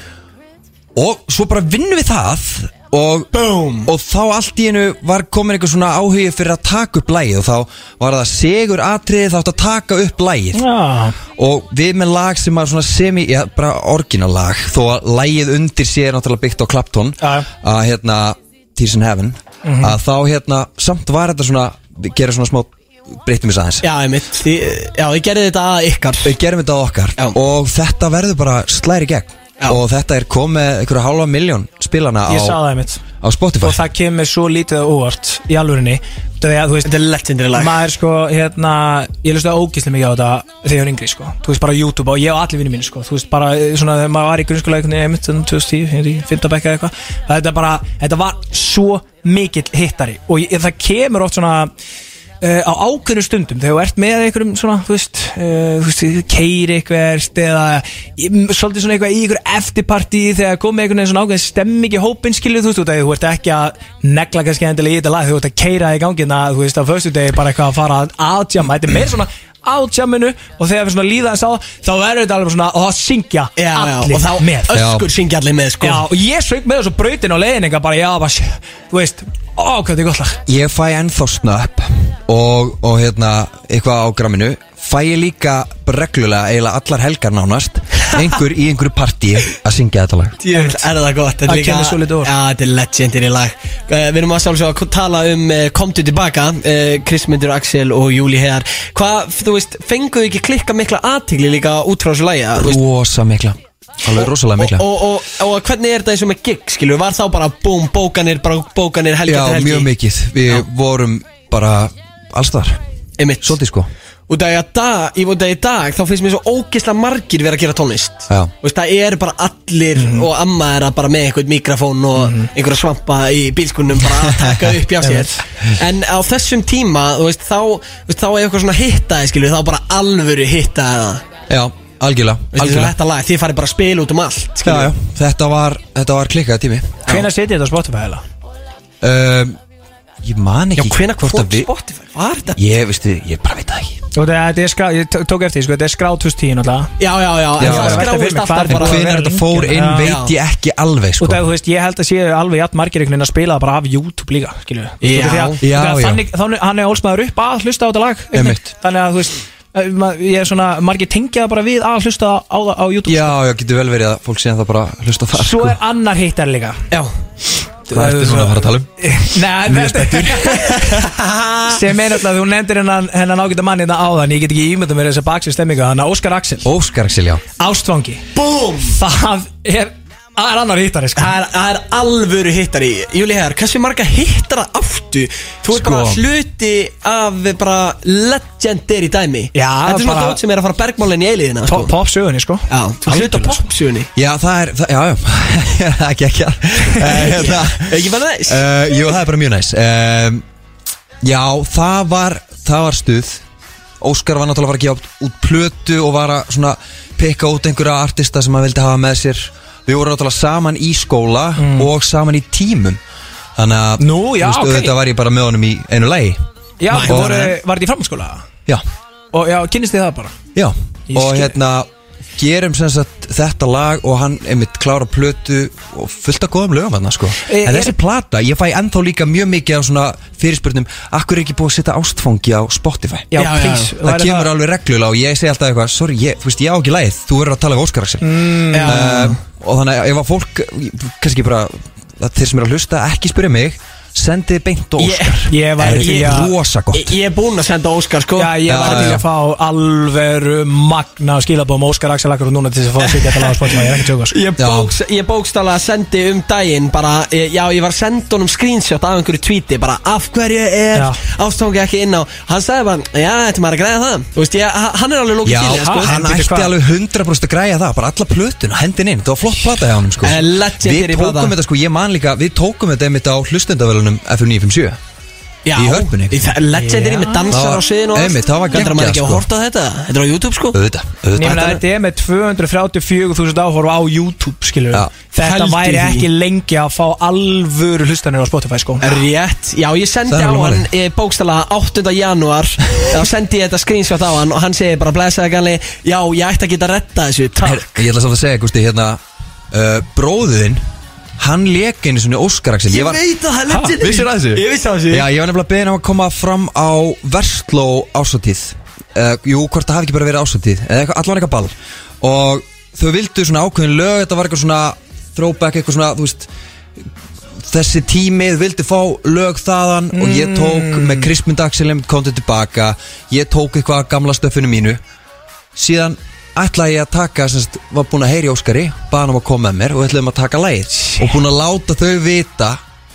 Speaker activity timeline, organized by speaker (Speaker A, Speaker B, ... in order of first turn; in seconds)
Speaker A: 0.9-3.3, 3.8-10.6, 11.4-23.9, 26.2-32.6, 33.2-33.8, 74.7-75.1, 80.5-90.4, 102.6-104.8, 109.2-112.8, 113.4-113.9, 131.5-132.9, 134.6-137.0, 139.0-139.6, 140.2-141.7, 142.6-144.0, 147.6-148.1, 148.7-151.4, 155.6-156.2, 158.3-158.6, 163.1-165.8, 167.9-168.9, 169.6-171.0, 176.6-177.4, 185.7-186.2, 194.1-200.4, 201.2-203.4, 204.0-213.0, 213.6-216.4, 217.0-217.4, 220.5-233.3, 234.0-247.1, 248.7-249.2, 254.6-254.9, 265.4-275.0, 275.7-276.4, 277.5-279.4, 280.7-281.8, 290.3-290.9, 297.6-299.2, 299.7-300.8, 301.4-303.2, 303.8-316.5, 317.6-325.0, 325.7-332.8
Speaker B: 3.3-3.9, 23.8-26.3, 36.8-37.8, 73.6-76.0, 90.4-102.8, 104.1-109.9, 113.2-113.5, 114.3-131.2, 132.5-134.9, 140.8-142.6, 147.0-149.2, 150.0-150.3, 155.0-155.6, 170.8-171.8, 178.3-179.0, 181.2-191.9, 192.7-194.1, 197.0-198.6, 216.9-217.5, 233.3-233.9, 238.7-239.4, 245.0-249.2, 253.0-253.8, 254.3-266.2, 270.2-271.5, 275.6-280.8, 281.4-281.8, 285.4-286.2, 289.0-298.0, 302.9-305.3
Speaker C: 10.5-11.2, 17.2-17.5, 19.6-19.9, 32.3-33.0, 33.6-36.9, 37.5-51.7, 52.4-74.8, 75.8-80.4, 90.5-90.8, 91.5-92.3, 120.0-120.3, 122.2-122.5, 125.0-125.4, 137.1-138.2, 144.1-146.9, 147.6-150.1, 151.2-163.3, 165.3-166.8, 167.9-171.0, 171.7-176.7, 177.6-178.2, 178.8-181.3, 189.5-190.4, 191.7-193.6, 211.6-211.9, 214.0-214.9, 216.8-218.4, 219.3-220.3, 221.1-221.5, 227.5-227.9, 233.3-234.5, 238.2-239.1, 245.5-246.5, 248.4-254.4, 260.9-261.2, 265.7-266.7, 276.7-277.6, 281.3-289.1, 320.1-321.3